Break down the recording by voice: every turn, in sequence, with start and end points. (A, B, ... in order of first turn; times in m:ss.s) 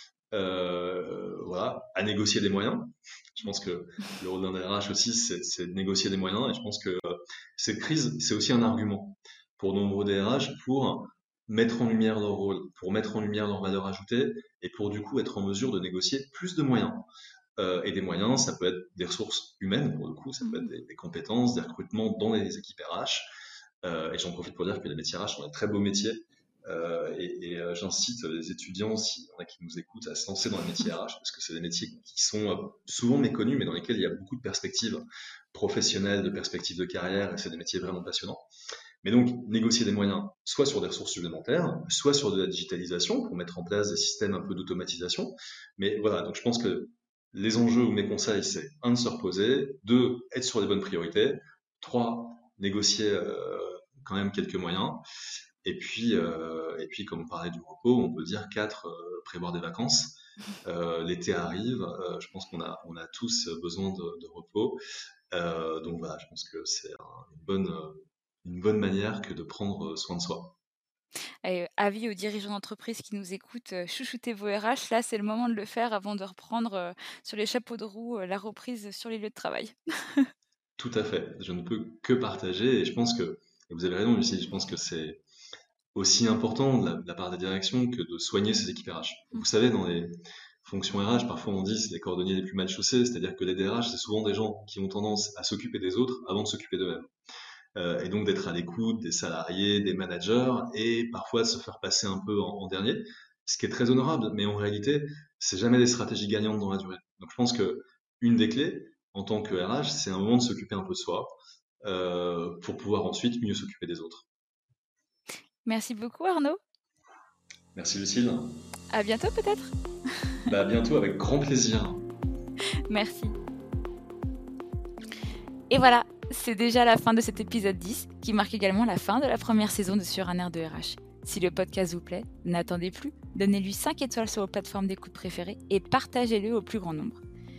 0:00.3-0:23.2 A
0:23.8-0:38.4 A
0:39.0-0:55.0 A
0:55.6-1:04.8 A
1:05.3-1:10.5 A
1:11.4-1:20.3 B
1:20.8-1:25.2 A
1:25.9-1:37.1 A
1:37.7-1:51.3 A
1:51.8-1:54.2 A
1:55.6-1:56.6 B
1:57.7-1:58.6 A
1:58.9-1:59.7 B
2:00.5-2:02.0 A
2:02.9-2:03.4 B
2:05.7-2:17.2 B